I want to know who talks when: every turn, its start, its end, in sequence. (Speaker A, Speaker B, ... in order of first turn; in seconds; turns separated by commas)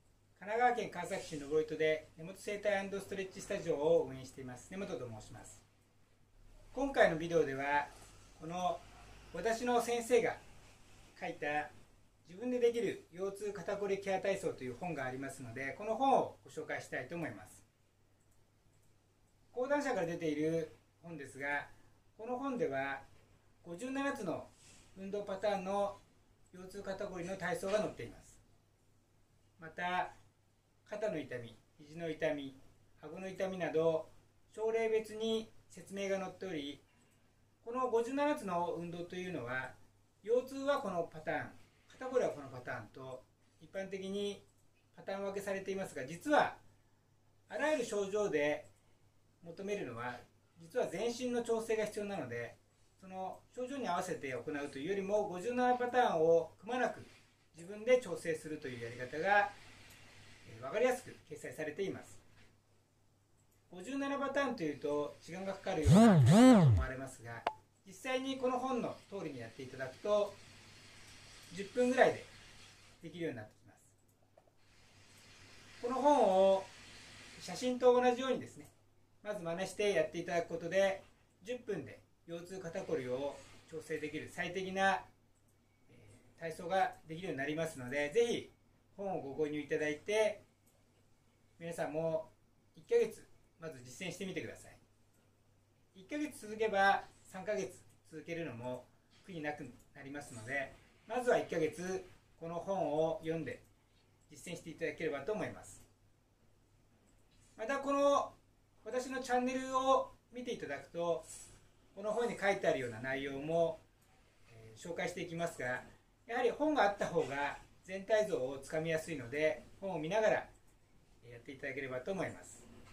Speaker A: 0.3-5.6, Speaker A: 6.7-8.8, Speaker A: 9.3-10.4, Speaker A: 11.2-11.7, Speaker A: 12.2-17.6, Speaker A: 19.5-23.0, Speaker A: 23.6-26.0, Speaker A: 26.5-28.4, Speaker A: 29.6-30.1, Speaker A: 30.9-36.8, Speaker A: 37.6-46.6, Speaker A: 47.5-48.7, Speaker A: 49.4-59.5, Speaker A: 60.4-62.2, Speaker A: 63.7-70.4, Speaker A: 71.5-72.3, Speaker A: 73.0-73.9, Speaker A: 75.8-76.7, Speaker A: 77.4-78.7, Speaker A: 79.2-85.1, Speaker A: 85.9-90.4, Speaker A: 91.6-94.8, Speaker A: 95.9-103.6, Speaker A: 104.3-105.8, Speaker A: 107.5-111.2, Speaker A: 111.9-113.8, Speaker A: 114.5-120.5, Speaker A: 121.2-122.7